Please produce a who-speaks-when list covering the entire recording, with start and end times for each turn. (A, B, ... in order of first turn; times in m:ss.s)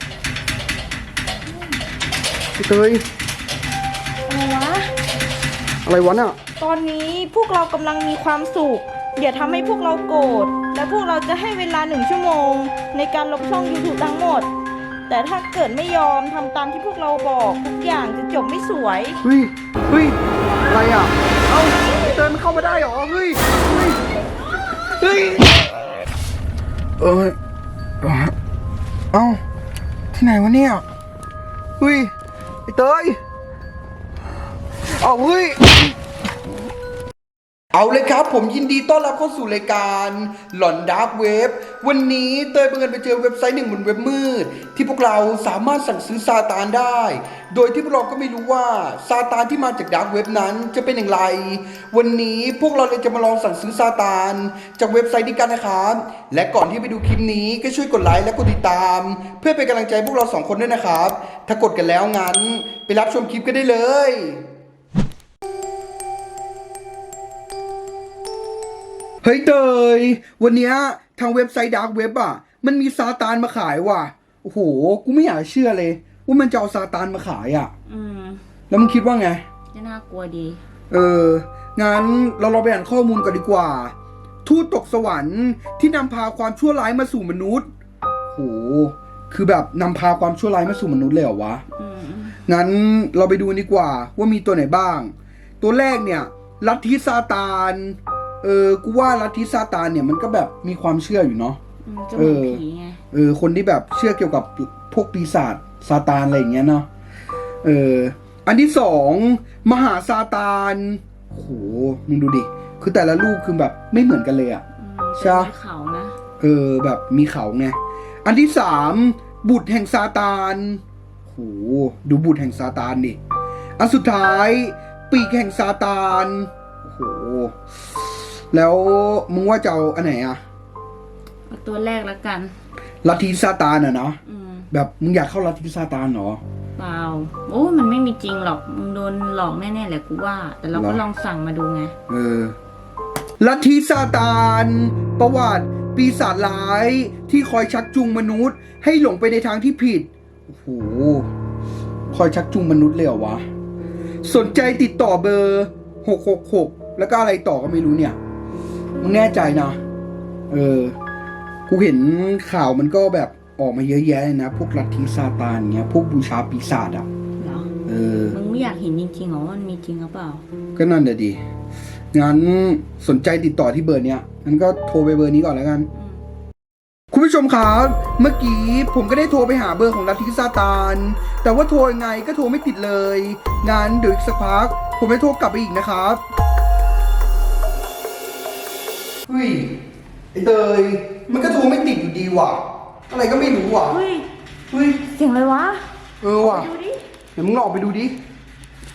0:01.5-0:01.8 A
0:02.6-0:03.0 B
0:04.3-0:04.9 A
0:05.8-0:06.4 B
0:06.6-0:14.5 A
0:15.1-0:19.2 A
0:19.2-0:24.0 B
0:24.9-0:25.5 B
0:27.0-0:27.4 B
0:28.0-0:28.3 B
0:29.1-0:29.4 B
0:30.1-0:30.8 B
0:31.8-0:32.1 B
0:32.7-0:33.2 B
0:35.0-0:35.7 B
0:37.7-1:04.4 B
1:09.2-1:17.7 B
1:17.9-1:18.4 C
1:18.7-1:19.4 B
1:19.7-1:20.6 C
1:20.9-1:23.9 B
1:24.4-1:27.7 B
1:28.3-1:31.6 B
1:31.8-1:32.4 C
1:32.5-1:41.6 B
1:41.8-1:43.0 C
1:42.2-1:46.9 B
1:47.6-1:54.6 B
1:54.8-1:56.2 C
1:55.2-1:55.5 B
1:56.4-2:03.2 B
2:03.8-2:07.6 B
2:08.5-2:10.4 B
2:11.5-2:12.5 C
2:13.0-2:14.2 B
2:14.2-2:14.7 C
2:14.7-2:16.4 B
2:16.8-2:21.9 C
2:20.7-2:21.0 B
2:22.1-2:22.5 B
2:23.4-2:31.3 B
2:32.1-2:33.4 B
2:34.2-2:38.2 B
2:39.0-2:39.8 B
2:40.5-2:40.9 B
2:41.7-2:47.1 B
2:47.4-2:47.7 C
2:47.9-2:48.4 B
2:48.3-2:50.4 C
2:50.7-2:51.4 B
2:52.1-2:55.9 B
2:57.1-3:06.2 B
3:09.3-3:09.7 B
3:10.3-3:14.0 B
3:13.9-3:14.3 A
3:14.7-3:15.0 B
3:15.1-3:15.8 A
3:16.2-3:16.7 B
3:16.4-3:17.0 A
3:17.4-3:18.1 B